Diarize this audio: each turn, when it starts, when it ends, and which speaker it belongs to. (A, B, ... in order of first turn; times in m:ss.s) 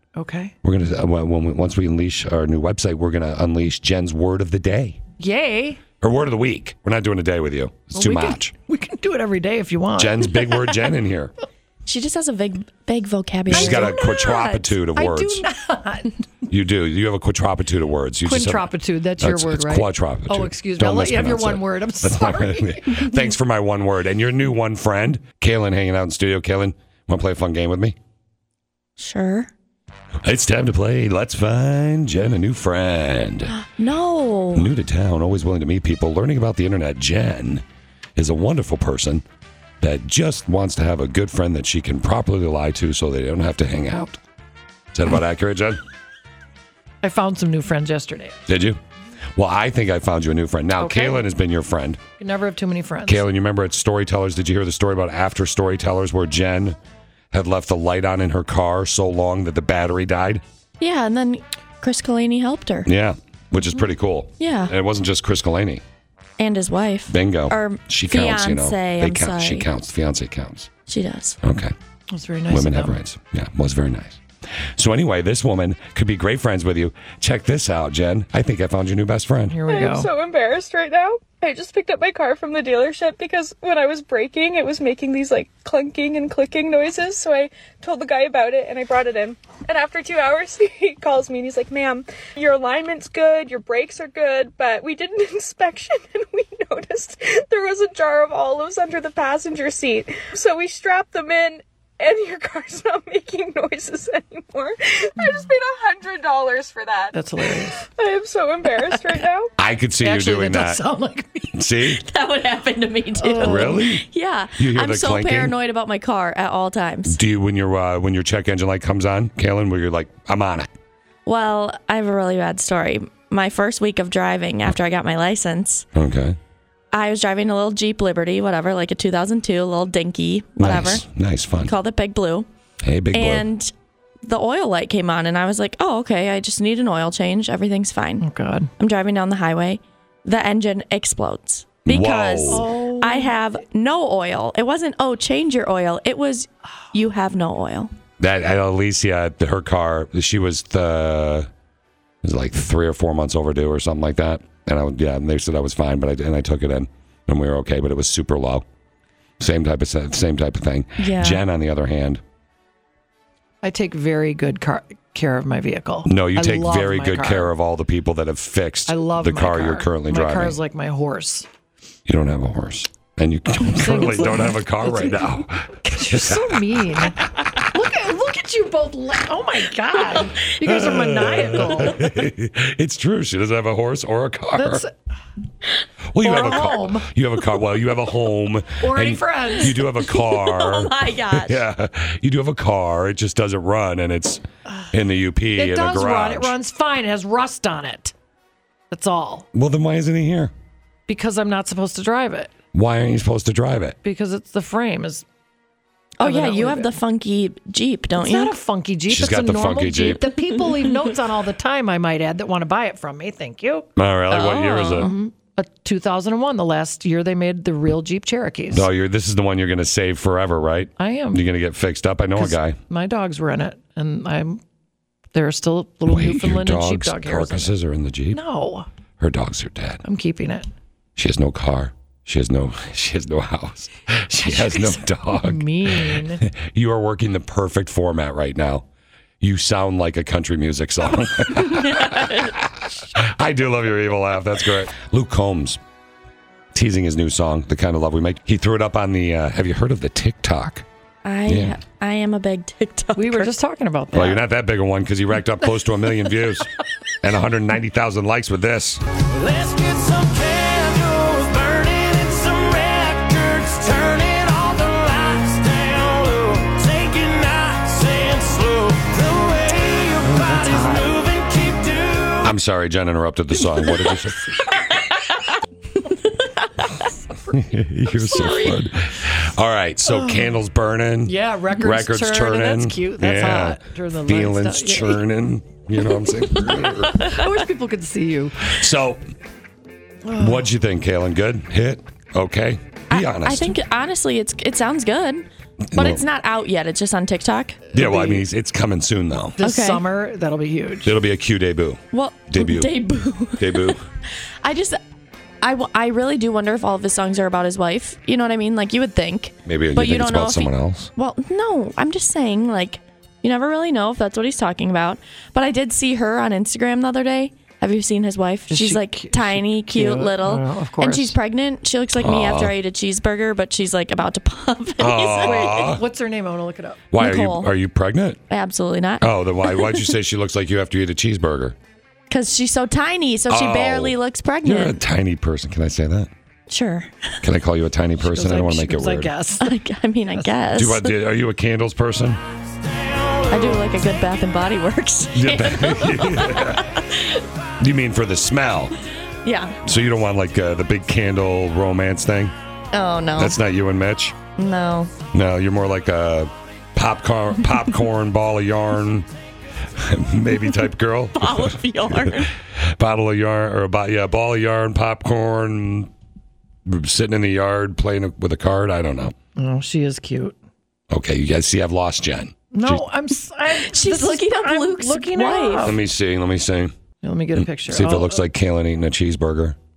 0:00.2-0:00.6 A
0:00.6-0:05.0 B
0:05.2-0:05.8 A
0:06.0-0:08.5 B
0:07.9-0:10.6 A
0:10.0-0:11.3 B
0:11.9-0:14.0 C
0:13.5-0:15.4 B
0:13.5-0:16.2 A
0:16.5-0:28.0 B
0:18.2-0:23.1 A
0:29.0-0:29.5 C
0:30.2-0:33.6 B
0:33.5-0:34.7 C
0:34.6-0:37.6 B
0:38.2-0:39.2 B
0:39.8-0:44.2 B
0:44.9-0:45.8 B
0:47.0-0:48.4 A
0:48.5-0:48.8 B
0:49.4-0:52.0 B
0:50.8-0:51.3 A
0:52.2-0:53.3 A
0:53.1-0:56.8 B
0:57.3-1:00.4 B
1:00.8-1:02.9 C
1:02.9-1:05.8 B
1:04.4-1:04.7 C
1:06.4-1:09.7 C
1:07.1-1:10.7 B
1:10.9-1:11.4 C
1:11.4-1:11.7 B
1:12.1-1:13.0 A
1:12.5-1:14.2 B
1:14.8-1:19.6 B
1:19.5-1:20.1 A
1:19.7-1:49.5 D
1:47.1-1:47.8 A
1:49.6-1:50.8 B
1:50.0-1:51.5 A
1:51.5-1:52.0 B
1:51.9-1:57.2 C
1:53.2-1:53.8 A
1:53.4-1:54.0 B
1:54.6-1:55.6 B
1:57.1-2:00.7 B
2:01.3-2:05.9 C
2:06.0-2:06.4 B
2:06.9-2:11.1 C
2:10.6-2:11.8 B
2:11.6-2:12.5 C
2:12.8-2:13.5 B
2:13.1-2:13.7 C
2:14.2-2:18.3 C
2:18.2-2:18.7 A
2:18.8-2:27.9 C
2:21.8-2:22.7 B
2:22.5-2:23.4 A
2:28.2-2:31.5 B
2:32.2-2:38.6 B
2:39.4-2:42.2 B
2:41.0-2:41.4 C
2:43.6-2:47.5 A
2:46.1-2:50.6 B
2:48.9-2:51.5 A
2:52.1-2:57.7 B
2:53.6-2:55.3 A
2:55.8-3:02.1 A
3:00.6-3:04.9 B
3:04.6-3:04.9 A
3:06.1-3:16.5 B
3:06.2-3:07.1 A
3:08.8-3:09.8 A
3:10.0-3:11.6 C
3:15.6-3:18.1 A
3:18.9-3:19.5 A
3:19.5-3:20.5 B
3:21.1-3:22.5 A
3:22.7-3:24.0 B
3:24.0-3:25.2 A
3:26.2-3:28.6 C
3:26.2-3:26.9 A
3:28.2-3:33.9 A
3:29.1-3:30.2 B
3:30.5-3:31.0 C
3:34.0-3:35.1 B
3:34.3-3:35.3 C
3:35.0-3:38.9 A
3:38.7-3:42.8 B
3:41.0-3:41.4 A
3:42.4-3:44.6 A
3:45.3-3:47.8 A
3:46.1-3:48.4 B
3:48.3-3:48.9 A
3:49.2-3:50.0 B
3:50.0-3:50.7 A
3:51.2-3:58.8 B
3:54.3-3:56.4 A
3:59.4-4:05.8 B
4:01.7-4:02.5 C
4:06.7-4:10.9 B
4:11.2-4:13.5 C
4:11.5-4:11.8 B
4:13.2-4:14.4 A
4:14.1-4:16.7 B
4:17.2-4:19.0 B
4:19.3-4:32.5 E
4:32.4-4:34.5 B
4:36.1-4:37.1 C
4:37.5-4:47.4 B
4:38.0-4:38.9 A
4:40.1-4:40.5 A
4:41.2-4:45.2 A
4:46.4-4:47.5 C
4:47.1-4:48.7 A
4:48.7-4:49.2 B
4:50.2-4:50.7 A
4:50.4-4:53.8 B
4:53.1-4:57.9 C
4:55.9-4:56.2 B
4:57.9-4:59.6 B
4:58.0-4:58.4 A
4:59.6-5:01.2 A
4:59.6-5:00.0 C
5:01.0-5:02.9 B
5:02.1-5:04.0 C
5:03.6-5:04.0 B
5:04.6-5:05.0 C
5:05.6-5:25.9 C
5:09.6-5:11.1 B
5:18.7-5:21.4 A
5:22.2-5:22.8 B
5:25.0-5:26.0 B
5:25.4-5:27.1 A
5:27.1-5:28.4 B
5:27.2-5:27.7 C
5:28.5-5:30.1 C
5:29.2-5:31.8 B
5:32.3-5:35.0 C
5:33.5-5:36.3 B
5:36.7-5:37.3 C
5:37.4-5:39.3 B
5:38.2-5:39.7 A
5:39.6-5:41.1 C
5:40.7-5:42.4 B
5:42.8-5:43.9 E
5:43.5-5:47.4 C
5:45.3-5:47.0 B
5:47.8-5:49.0 B
5:49.4-5:49.8 C
5:49.8-5:52.5 B
5:52.9-5:53.6 C
5:53.4-5:54.4 B
5:54.6-5:55.1 C
5:55.3-5:59.3 B
6:00.0-6:02.5 B
6:00.6-6:02.5 C
6:03.0-6:06.1 B
6:06.9-6:09.3 B
6:09.6-6:10.6 A
6:11.1-6:13.0 B
6:12.7-6:16.0 A
6:13.7-6:16.0 C
6:15.8-6:16.9 B
6:17.2-6:18.4 A
6:17.6-6:19.8 B